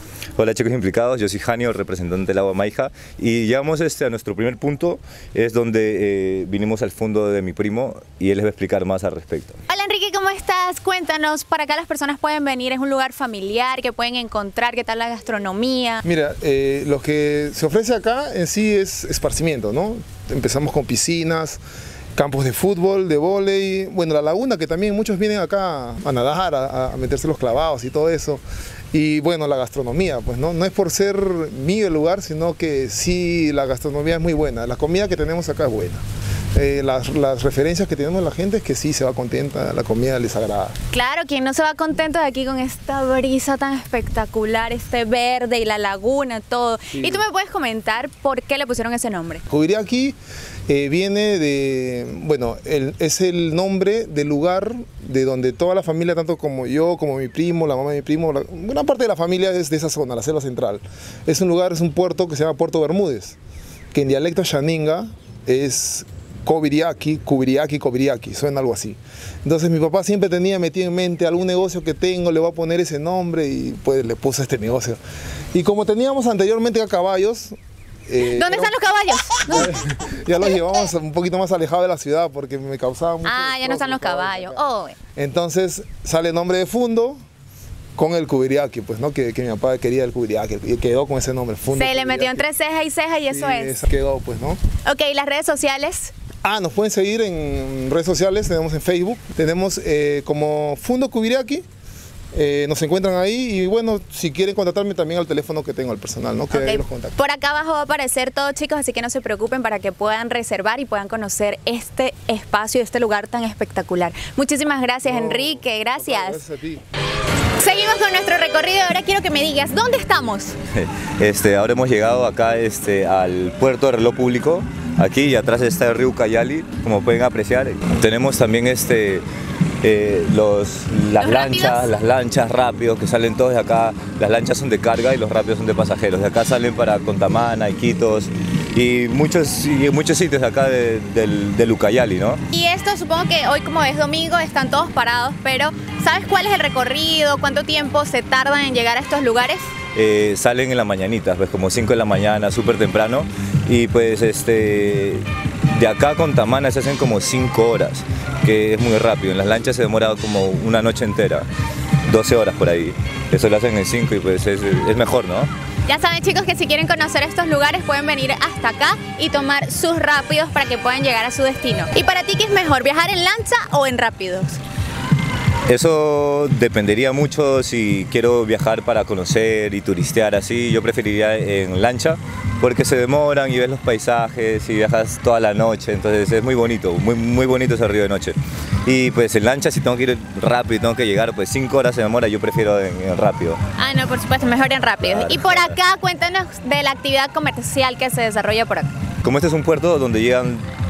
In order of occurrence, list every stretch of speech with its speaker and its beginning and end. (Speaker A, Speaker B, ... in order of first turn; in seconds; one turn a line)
Speaker A: 0.4-9.6
Speaker B: 9.7-16.0
Speaker C: 16.0-21.6
Speaker C: 22.1-36.0
Speaker C: 36.5-40.7
Speaker B: 40.9-49.4
Speaker C: 49.5-50.1
Speaker C: 50.7-63.4
Speaker C: 63.9-75.0
Speaker C: 75.5-78.7
Speaker B: 78.2-79.8
Speaker C: 79.5-84.6
Speaker B: 83.2-85.0
Speaker C: 85.2-87.2
Speaker C: 88.0-92.4
Speaker B: 91.7-93.8
Speaker C: 93.3-94.6
Speaker B: 94.8-96.1
Speaker C: 96.4-101.6
Speaker C: 102.3-107.1
Speaker B: 106.5-116.4
Speaker C: 115.0-116.8
Speaker B: 117.6-120.5
Speaker A: 120.7-129.2
Speaker A: 129.8-142.4
Speaker B: 131.2-131.9
Speaker B: 142.5-149.7
Speaker A: 149.9-161.5
Speaker A: 162.1-165.5
Speaker B: 165.9-174.6
Speaker A: 175.7-193.6
Speaker B: 193.8-198.9
Speaker A: 195.0-195.8
Speaker A: 199.2-200.7